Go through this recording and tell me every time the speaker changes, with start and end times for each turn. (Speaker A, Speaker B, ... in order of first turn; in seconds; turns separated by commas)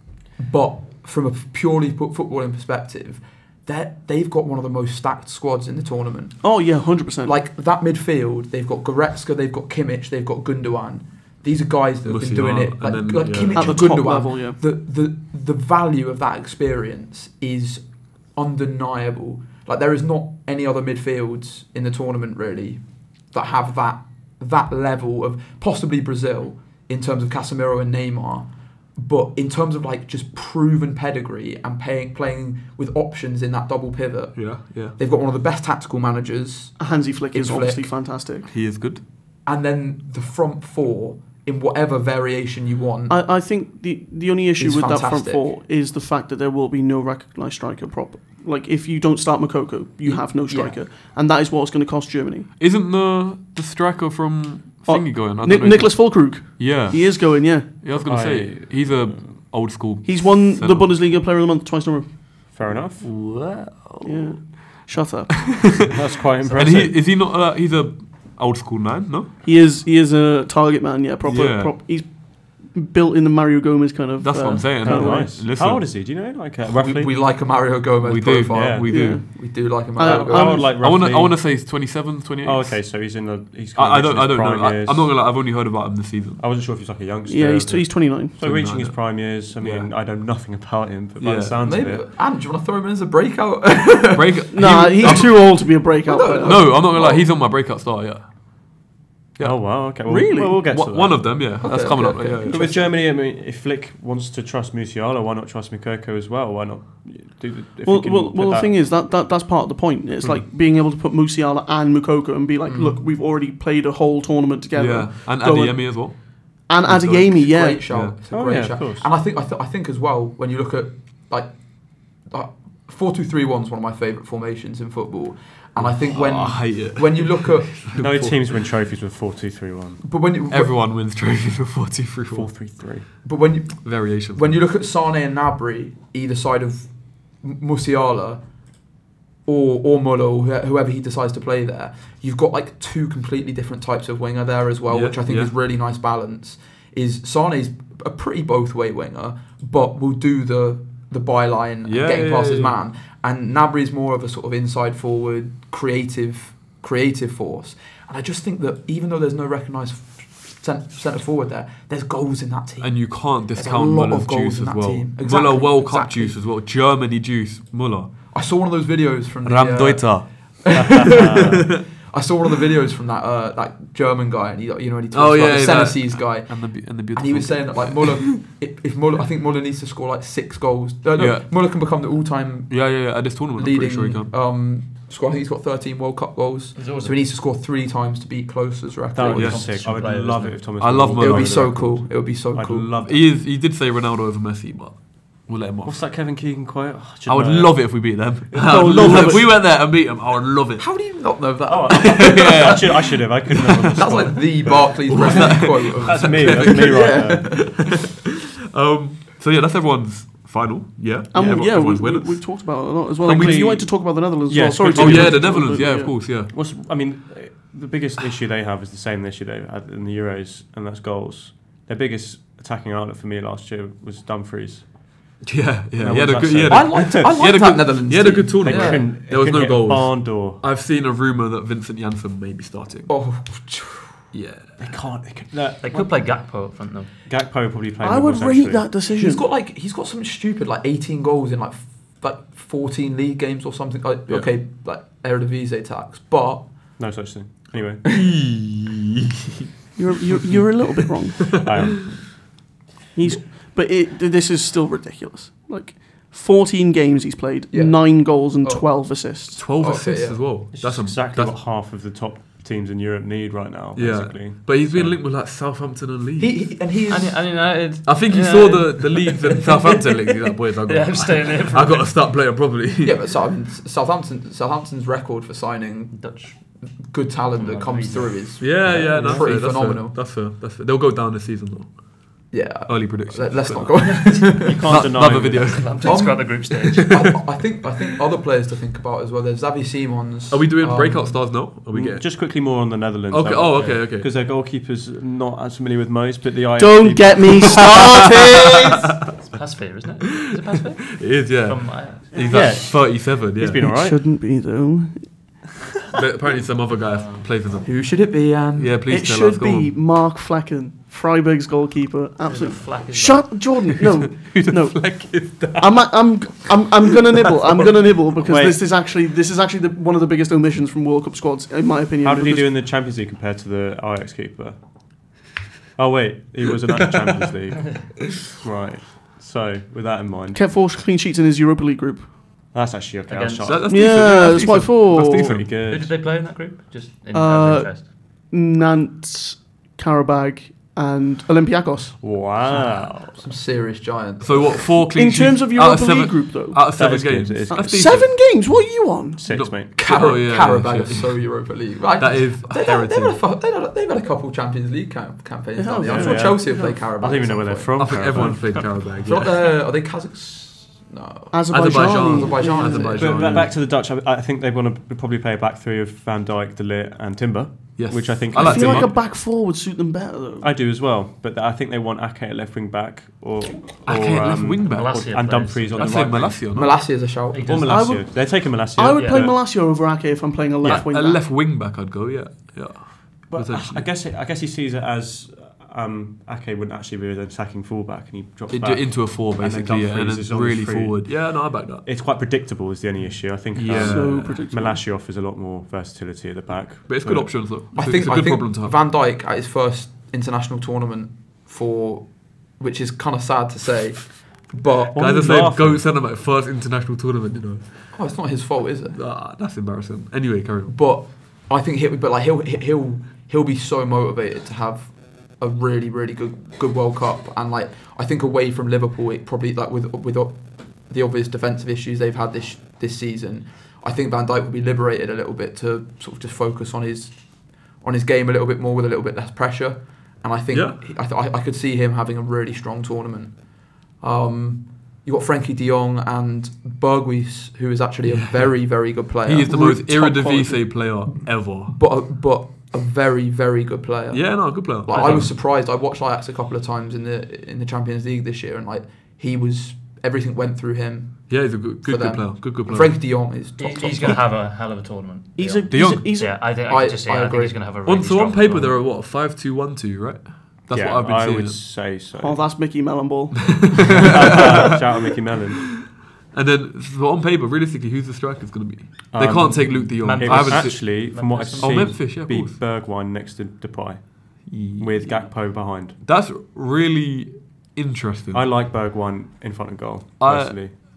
Speaker A: 0.4-37.9, Speaker B: 6.4-7.3, Speaker C: 12.0-13.8, Speaker B: 13.5-14.6, Speaker C: 34.4-34.9, Speaker B: 36.8-38.5, Speaker C: 38.5-39.0, Speaker A: 39.5-43.2, Speaker B: 43.1-52.5, Speaker A: 44.6-45.5, Speaker A: 50.0-50.8, Speaker C: 52.6-60.9, Speaker B: 54.9-57.7, Speaker D: 58.0-59.3, Speaker B: 60.0-62.1, Speaker D: 62.5-63.0, Speaker C: 63.0-64.9, Speaker B: 64.0-65.8, Speaker D: 65.8-67.0, Speaker C: 66.5-69.3, Speaker B: 69.4-75.4, Speaker C: 71.2-71.7, Speaker C: 74.2-75.9, Speaker D: 74.8-77.1, Speaker A: 76.8-80.6, Speaker C: 78.0-79.2, Speaker D: 78.5-78.8, Speaker B: 78.9-80.7, Speaker D: 80.0-81.8, Speaker C: 80.5-82.8, Speaker D: 82.4-85.2, Speaker C: 83.7-86.4, Speaker D: 86.4-92.0, Speaker B: 87.3-88.4, Speaker C: 88.4-89.9, Speaker C: 91.2-91.6, Speaker A: 91.6-95.4, Speaker C: 94.1-95.8, Speaker B: 94.5-96.6, Speaker A: 96.0-97.2, Speaker C: 96.4-98.2, Speaker C: 99.4-99.8, Speaker D: 99.4-101.4, Speaker B: 100.0-100.6, Speaker C: 100.5-102.7, Speaker A: 101.6-102.8, Speaker D: 102.4-108.8, Speaker B: 107.8-117.8, Speaker A: 112.7-113.0, Speaker C: 114.7-118.2, Speaker A: 117.3-121.5, Speaker D: 118.3-119.1, Speaker A: 122.2-128.0, Speaker C: 125.8-128.6, Speaker D: 127.9-130.0, Speaker A: 130.0-130.7, Speaker C: 130.5-132.5, Speaker D: 132.3-133.1, Speaker A: 133.2-138.4, Speaker C: 133.8-134.6, Speaker A: 139.4-166.3, Speaker C: 144.9-145.5, Speaker C: 151.8-152.8, Speaker C: 162.8-168.1, Speaker A: 168.3-176.5, Speaker C: 169.4-171.2, Speaker D: 170.7-171.8, Speaker C: 175.1-178.3, Speaker A: 177.0-183.0, Speaker C: 181.2-181.5, Speaker C: 182.7-184.3, Speaker A: 183.5-189.6, Speaker E: 186.7-187.2, Speaker D: 189.1-193.3, Speaker E: 189.2-190.8, Speaker C: 189.3-189.7, Speaker C: 190.8-191.7, Speaker A: 191.1-192.9, Speaker C: 193.0-196.0, Speaker D: 195.8-199.5, Speaker C: 197.3-200.9, Speaker A: 200.8-202.8, Speaker D: 201.7-207.8, Speaker C: 202.1-204.3, Speaker A: 204.0-207.8, Speaker C: 205.1-213.8, Speaker B: 211.3-216.1, Speaker D: 213.2-224.9, Speaker C: 214.9-216.5, Speaker C: 225.4-233.1, Speaker D: 226.0-227.4, Speaker A: 226.7-229.1, Speaker D: 228.6-230.6, Speaker A: 233.1-234.2, Speaker C: 234.3-234.8, Speaker D: 234.8-236.4, Speaker E: 235.8-237.1, Speaker D: 237.2-238.9, Speaker B: 238.0-239.4, Speaker A: 239.1-246.7, Speaker D: 247.0-248.0, Speaker C: 248.0-249.7, Speaker B: 249.9-251.7, Speaker D: 251.5-252.4, Speaker B: 253.1-259.6, Speaker A: 257.7-260.4, Speaker C: 259.5-261.6, Speaker D: 260.7-265.2, Speaker C: 263.9-266.7, Speaker A: 266.4-267.8, Speaker E: 267.1-272.2, Speaker C: 268.0-273.4, Speaker A: 273.0-276.2, Speaker E: 276.1-276.6, Speaker A: 276.8-280.2, Speaker E: 277.5-278.6, Speaker C: 278.6-287.4, Speaker D: 278.9-279.5, Speaker A: 282.5-284.8, Speaker E: 284.0-284.5, Speaker D: 284.6-285.9, Speaker E: 285.3-287.2, Speaker A: 286.0-291.4, Speaker C: 290.5-292.3, Speaker D: 291.9-298.2, Speaker C: 293.3-294.3, Speaker E: 293.7-294.0, Speaker B: 296.8-299.1, Speaker C: 297.8-298.5, Speaker E: 299.4-302.8, Speaker C: 300.3-303.8, Speaker D: 302.4-304.2, Speaker B: 303.8-305.3, Speaker C: 306.1-308.0, Speaker E: 307.1-307.5, Speaker A: 307.8-309.0, Speaker C: 308.7-309.9, Speaker B: 309.1-322.7, Speaker E: 312.4-313.7, Speaker C: 313.9-317.7, Speaker D: 318.4-318.8, Speaker D: 322.2-324.8, Speaker D: 325.9-330.6, Speaker B: 330.5-332.3, Speaker D: 332.7-334.2, Speaker E: 333.3-333.9, Speaker C: 333.6-335.7, Speaker B: 333.9-335.6, Speaker D: 335.2-336.1, Speaker E: 335.9-338.1, Speaker B: 337.3-342.2, Speaker D: 342.2-343.4, Speaker A: 343.3-344.9, Speaker C: 344.4-348.4, Speaker B: 345.1-346.8, Speaker D: 346.9-348.3, Speaker B: 347.7-349.4, Speaker D: 349.4-349.9, Speaker C: 349.5-353.4, Speaker A: 349.9-363.6, Speaker B: 355.8-357.0, Speaker D: 356.0-358.9, Speaker C: 357.9-359.7, Speaker B: 361.5-363.6, Speaker C: 361.7-363.7, Speaker D: 363.1-369.1, Speaker C: 368.0-369.1, Speaker B: 368.5-370.7, Speaker D: 370.6-376.9, Speaker C: 374.1-376.9, Speaker E: 374.8-376.6, Speaker A: 376.7-377.7, Speaker E: 377.5-378.1, Speaker D: 377.6-379.6, Speaker B: 377.9-381.4, Speaker E: 379.1-379.5, Speaker C: 380.8-384.0, Speaker D: 383.5-397.7, Speaker C: 388.7-392.0, Speaker C: 393.7-394.6, Speaker B: 393.9-395.0, Speaker C: 397.1-398.9, Speaker A: 397.9-405.2, Speaker D: 405.1-406.1, Speaker C: 405.1-408.0, Speaker A: 408.1-409.2, Speaker C: 409.1-411.0, Speaker A: 410.9-427.4, Speaker A: 428.0-433.6, Speaker C: 430.7-431.0, Speaker A: 434.2-454.5, Speaker C: 438.2-441.9, Speaker C: 444.3-445.5, Speaker E: 445.1-445.5, Speaker C: 451.5-453.1, Speaker E: 453.8-459.0, Speaker B: 455.6-456.6, Speaker D: 455.9-456.2, Speaker A: 456.8-457.8, Speaker C: 458.0-461.8, Speaker D: 460.9-462.6, Speaker B: 462.4-464.6, Speaker C: 463.8-464.9, Speaker D: 464.1-465.9, Speaker C: 466.5-472.8, Speaker D: 469.3-476.2, Speaker E: 470.2-472.2, Speaker C: 474.7-475.5, Speaker C: 476.2-478.7, Speaker D: 478.5-480.9, Speaker C: 480.4-481.0